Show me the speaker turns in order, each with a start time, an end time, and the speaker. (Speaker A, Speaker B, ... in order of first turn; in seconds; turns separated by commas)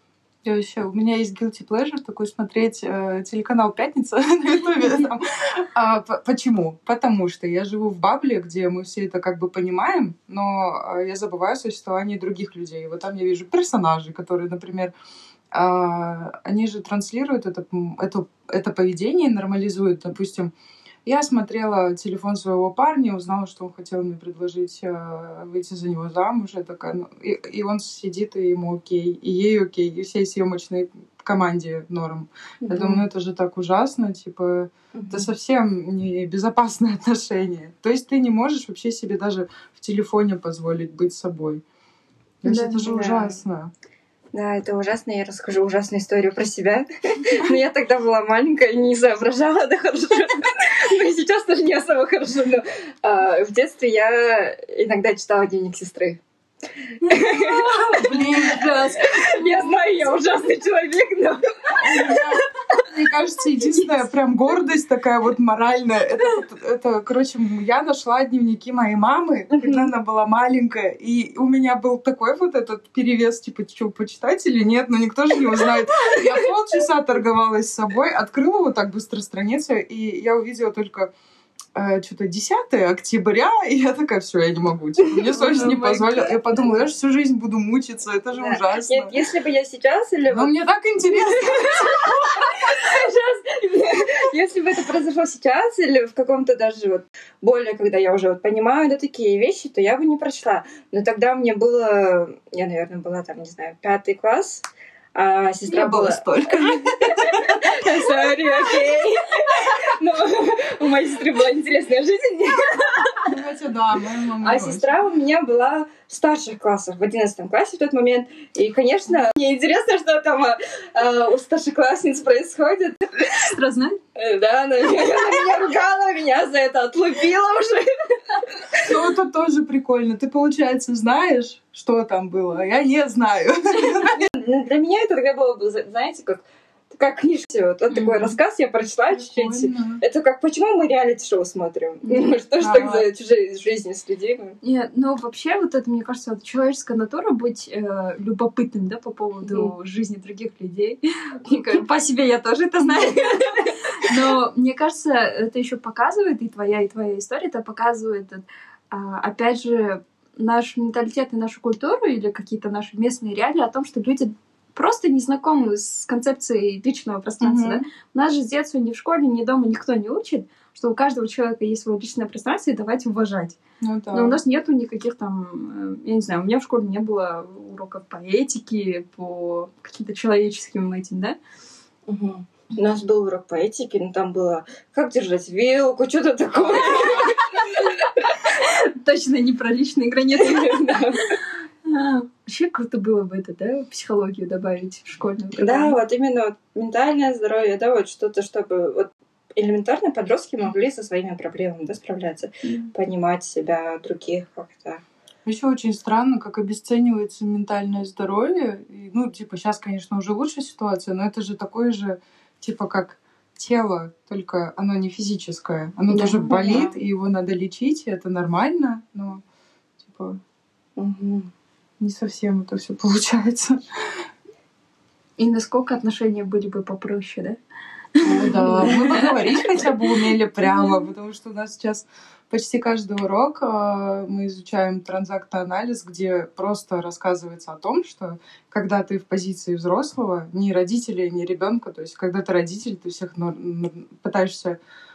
Speaker A: 0.4-14.9, Speaker A: 15.5-20.5, Speaker A: 21.1-41.6, Speaker B: 32.6-33.0, Speaker B: 35.0-35.3, Speaker A: 42.4-43.7, Speaker C: 42.5-42.7, Speaker B: 42.8-43.4, Speaker B: 44.3-56.2, Speaker B: 57.0-62.4, Speaker C: 57.1-59.5, Speaker A: 57.9-59.0, Speaker A: 61.7-81.1, Speaker B: 69.5-69.9, Speaker A: 81.8-89.2, Speaker C: 85.4-86.4, Speaker B: 88.3-90.5, Speaker A: 90.3-92.1, Speaker B: 91.1-113.3, Speaker A: 105.7-107.8, Speaker A: 113.3-114.9, Speaker B: 114.4-123.5, Speaker C: 123.3-124.0, Speaker B: 124.2-128.7, Speaker A: 128.7-134.3, Speaker B: 134.0-144.6, Speaker C: 137.9-138.3, Speaker A: 139.1-140.0, Speaker C: 142.1-142.4, Speaker A: 142.6-143.1, Speaker C: 144.6-173.6, Speaker B: 149.4-149.7, Speaker B: 153.0-153.7, Speaker A: 167.4-167.8, Speaker A: 173.8-174.4, Speaker C: 174.1-181.4, Speaker B: 182.1-187.8, Speaker C: 188.5-191.2, Speaker B: 190.4-191.3, Speaker C: 191.8-196.0, Speaker B: 195.6-205.0, Speaker C: 202.7-202.9, Speaker A: 205.5-219.4, Speaker B: 216.1-216.9, Speaker A: 220.0-220.4, Speaker B: 221.0-221.5, Speaker A: 222.0-223.8, Speaker C: 225.4-227.6, Speaker C: 228.2-229.3, Speaker A: 228.2-244.8